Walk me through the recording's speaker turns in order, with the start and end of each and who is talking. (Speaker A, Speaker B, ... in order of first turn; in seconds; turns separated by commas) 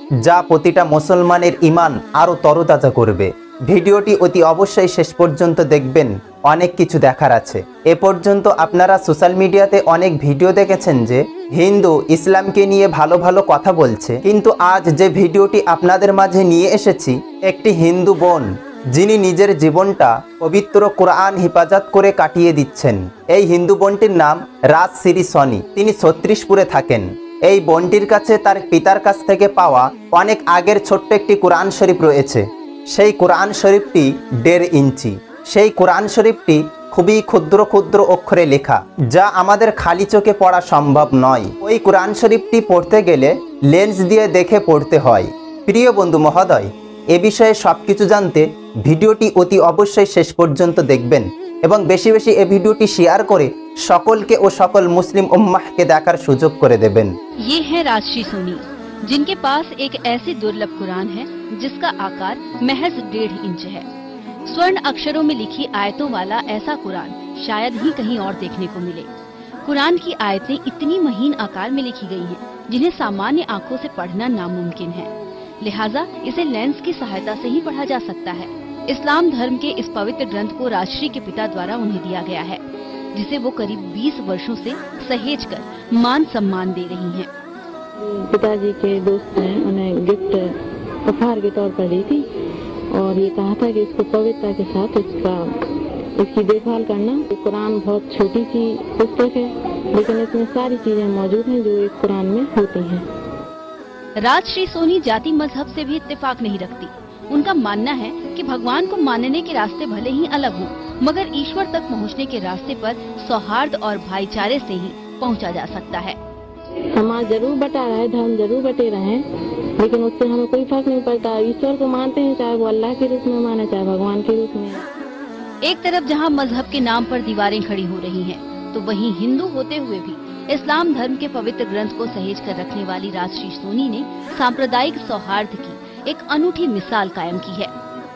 Speaker A: 0.2-57.1, Speaker B: 57.5-63.9, Speaker B: 64.5-69.1, Speaker B: 69.7-82.6, Speaker B: 83.1-87.3, Speaker C: 88.0-90.5, Speaker C: 91.0-92.2, Speaker C: 92.9-95.5, Speaker C: 96.2-103.0, Speaker B: 104.2-116.2, Speaker C: 117.0-119.2, Speaker C: 119.8-124.9, Speaker B: 125.7-137.7